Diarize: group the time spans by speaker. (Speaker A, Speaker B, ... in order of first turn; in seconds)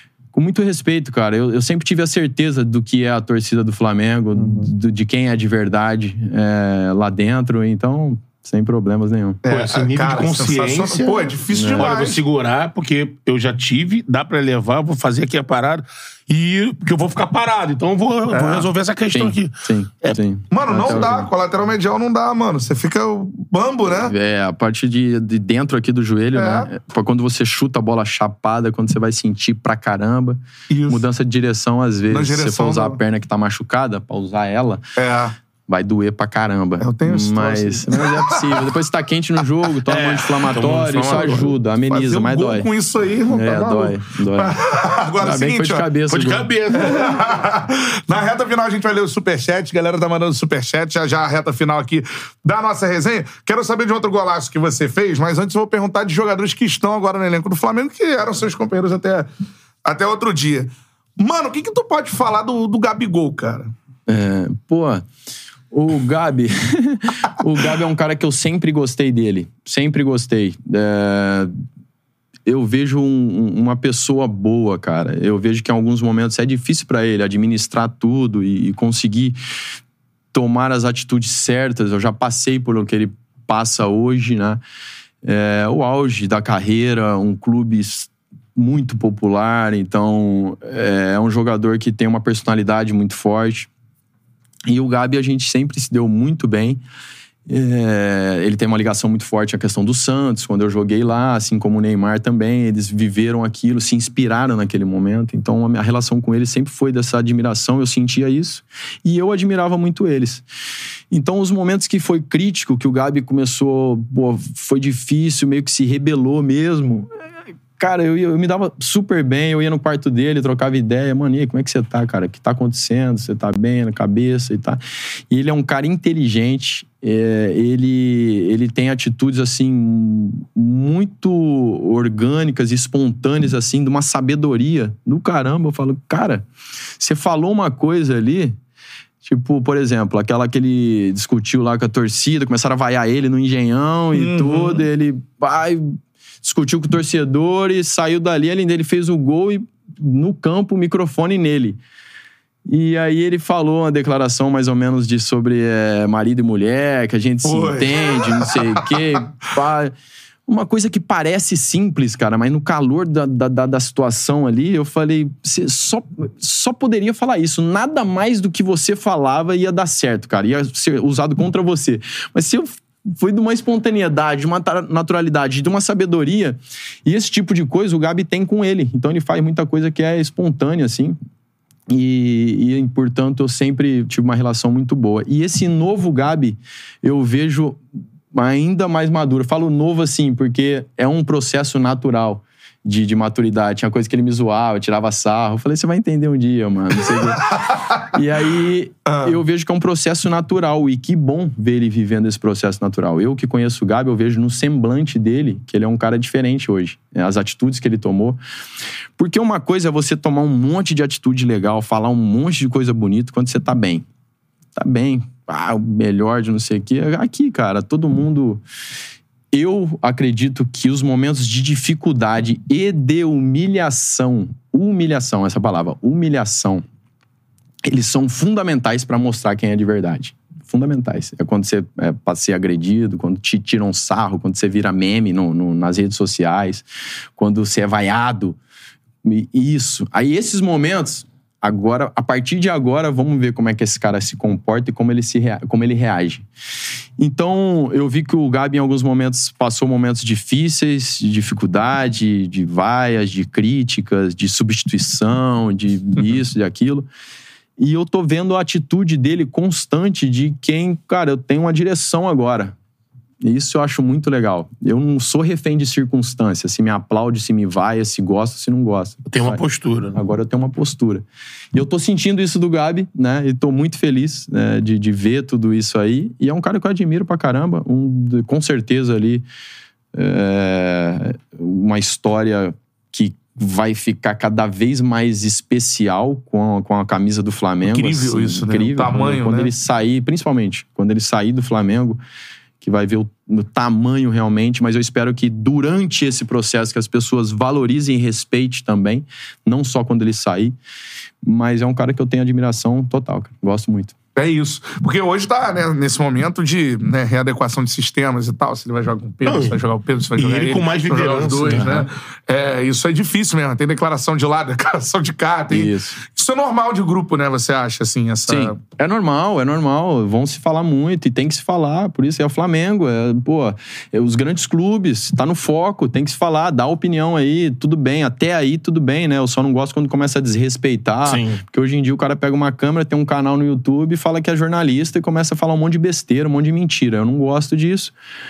Speaker A: 0.3-9.4, 11.5-12.0, 19.1-21.3, 23.9-34.8, 35.7-42.7, 43.3-44.6, 45.2-46.9, 64.1-65.1, 65.7-71.5, 72.5-79.4, 80.3-84.6, 85.2-93.7, 94.7-96.8, 97.5-110.4, 111.1-117.1, 117.8-136.5, 137.0-138.6, 139.2-151.8, 152.7-159.9, 160.5-181.2, 181.9-208.4, 209.2-214.1, 214.8-218.6, 219.5-226.8, 227.8-236.9, 237.4-238.6, 239.2-246.5, 247.2-257.1, 257.8-262.8, 263.4-269.6, 270.1-279.4, 280.1-292.2, 292.8-300.8, 301.4-304.1, 315.7-316.1, 318.5-338.1
Speaker B: 4.4-4.7, 9.4-12.2, 18.3-18.7, 20.5-24.1, 26.4-26.7, 30.7-31.0, 32.1-33.0, 35.0-35.4, 36.8-38.5, 41.1-45.9, 46.7-59.3, 59.9-63.7, 144.1-144.8, 157.4-159.0, 199.1-199.3, 287.9-289.7, 304.4-318.8
Speaker C: 9.5-20.2, 39.9-41.5, 46.1-47.1, 269.3-270.2, 309.4-309.8, 310.4-312.1, 331.3-331.6